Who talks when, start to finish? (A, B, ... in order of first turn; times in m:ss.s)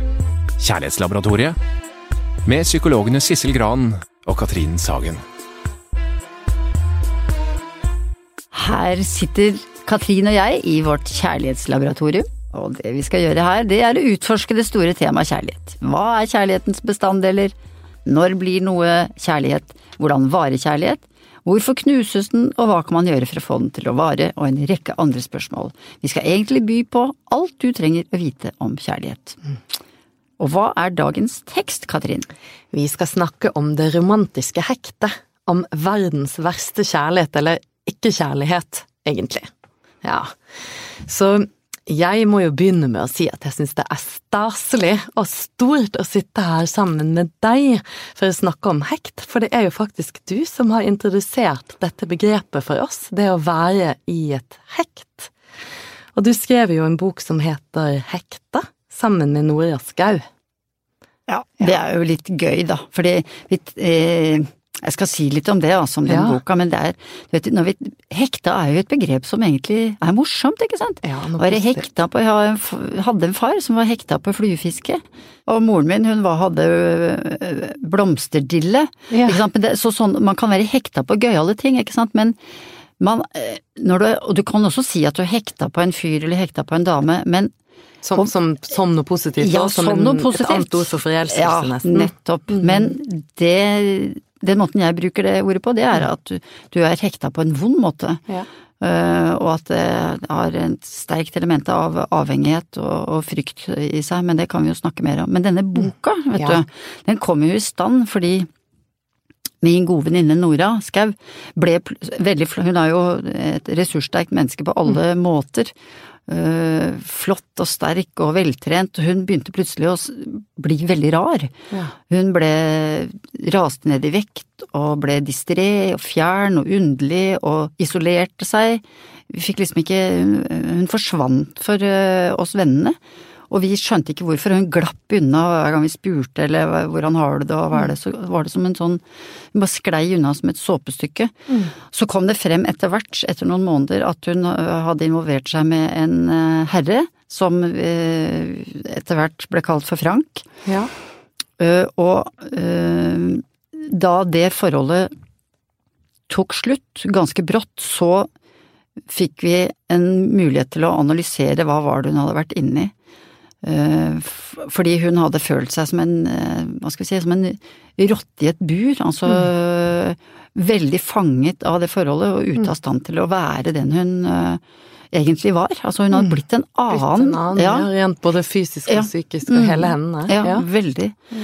0:00.6-0:01.6 A
0:02.4-0:05.2 A
0:08.5-0:17.5 B
0:18.0-0:29.4 B
0:30.4-0:32.3 B
0:32.7-0:39.5 C
0:40.0-0:55.3 C
0:56.1-1:00.2 C
1:01.3-1:22.4 B
1:06.1-1:06.4 C
1:11.0-1:11.8 C
1:19.1-1:19.4 C
1:23.0-1:27.5 B
1:28.0-1:32.9 C
1:29.4-1:38.2 B
1:38.8-1:48.5 B
1:49.6-1:55.7 B
1:56.3-2:01.5 B
2:02.1-2:13.0 B
2:13.5-2:19.0 B
2:19.5-2:21.3 B
2:21.9-2:30.4 B
2:30.6-2:30.9 C
2:31.6-2:35.1 B
2:36.3-2:38.3 B
2:39.1-2:42.9 B
2:43.6-2:54.6 B
2:55.1-2:57.9 B
2:56.1-2:56.4 C
2:56.9-3:00.6 C
2:58.9-3:01.2 B